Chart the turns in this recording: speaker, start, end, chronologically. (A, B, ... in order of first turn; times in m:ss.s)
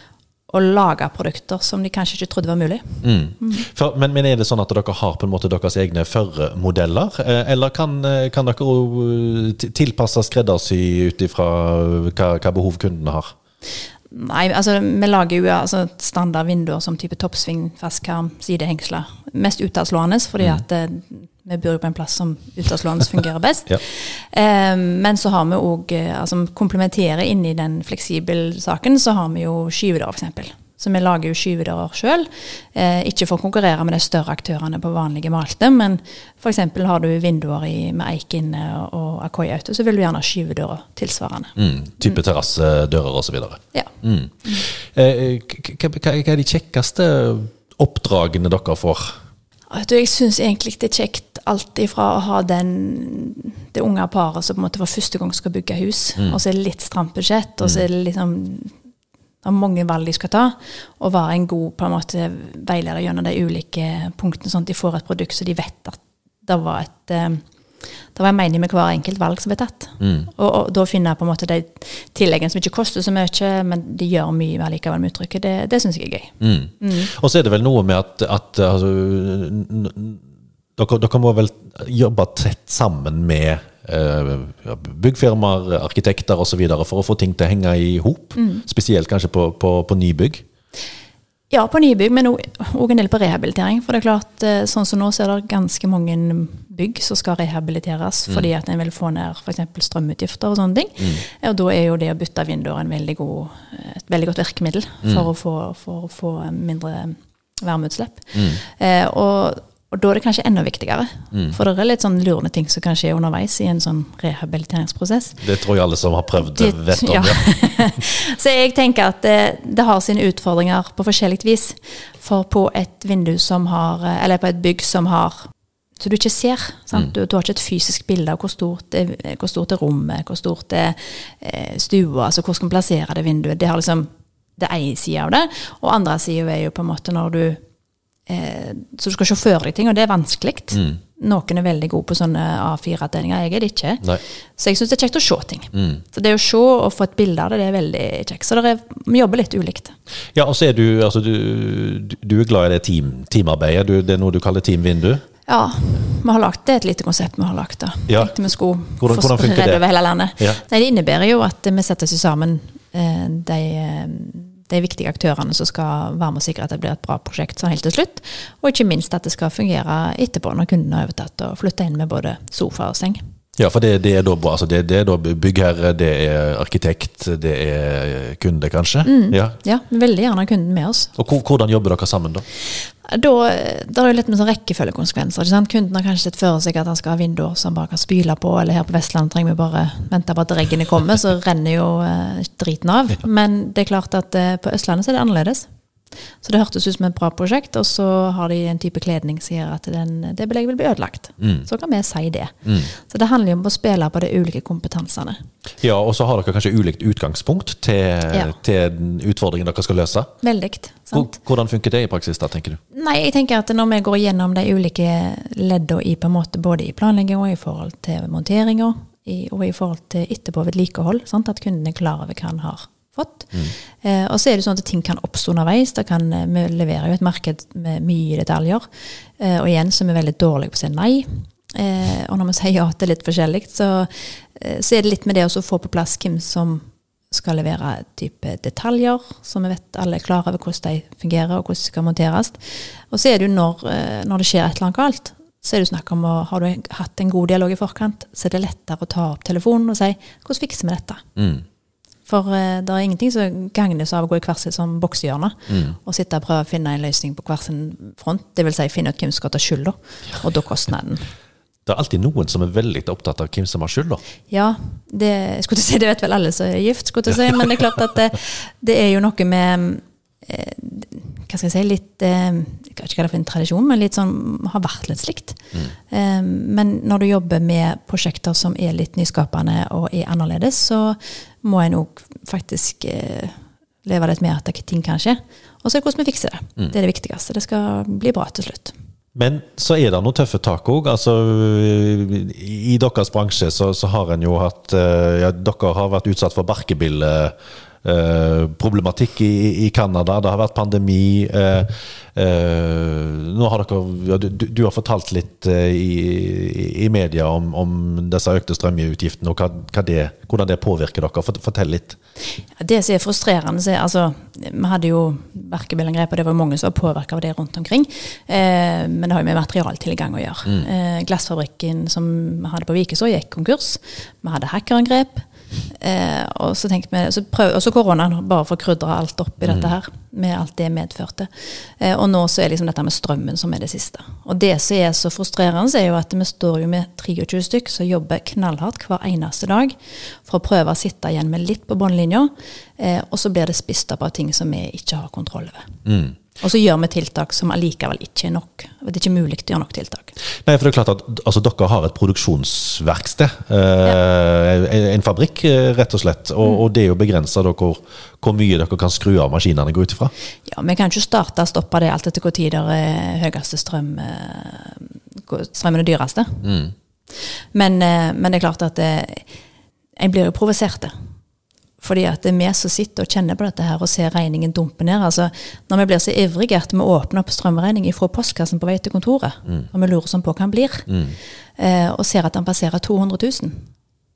0:00.5-0:03.7 A
0:03.0-0:13.3 B
0:14.1-0:41.5 A
0:41.6-0:49.2 B
0:49.7-0:58.7 A
0:59.4-1:07.4 A
1:08.1-1:17.1 A
1:10.0-1:10.3 B
1:16.4-1:20.2 B
1:20.8-1:30.4 B
1:28.4-1:28.6 A
1:31.5-1:55.4 A
1:55.4-1:57.5 B
1:56.4-2:05.5 A
2:06.0-2:17.6 A
2:18.3-2:30.0 A
2:20.7-2:21.0 B
2:25.7-2:26.0 B
2:30.4-2:35.2 B
2:35.5-2:53.2 A
2:38.1-2:38.3 B
2:39.0-2:39.8 B
2:53.6-2:59.6 B
2:59.1-3:01.1 A
3:01.2-3:02.4 B
3:03.0-3:15.7 A
3:16.4-3:25.4 A
3:21.4-3:21.7 B
3:25.8-3:30.3 B
3:30.4-3:31.3 A
3:31.1-3:32.8 B
3:32.9-3:48.9 A
3:49.4-4:11.2 A
4:11.4-4:11.6 B
4:12.3-4:21.3 A
4:15.7-4:16.0 B
4:21.9-4:24.2 B
4:24.5-4:48.9 A
4:49.4-5:12.2 B
5:12.8-5:46.0 A
5:29.6-5:29.9 B
5:46.1-5:46.4 B
5:46.6-5:50.4 A
5:50.6-6:00.3 B
6:00.7-6:06.7 A
6:06.6-6:06.9 B
6:07.4-6:09.5 A
6:10.2-6:11.1 A
6:12.0-6:21.1 A
6:21.1-6:21.4 B
6:21.8-6:23.9 A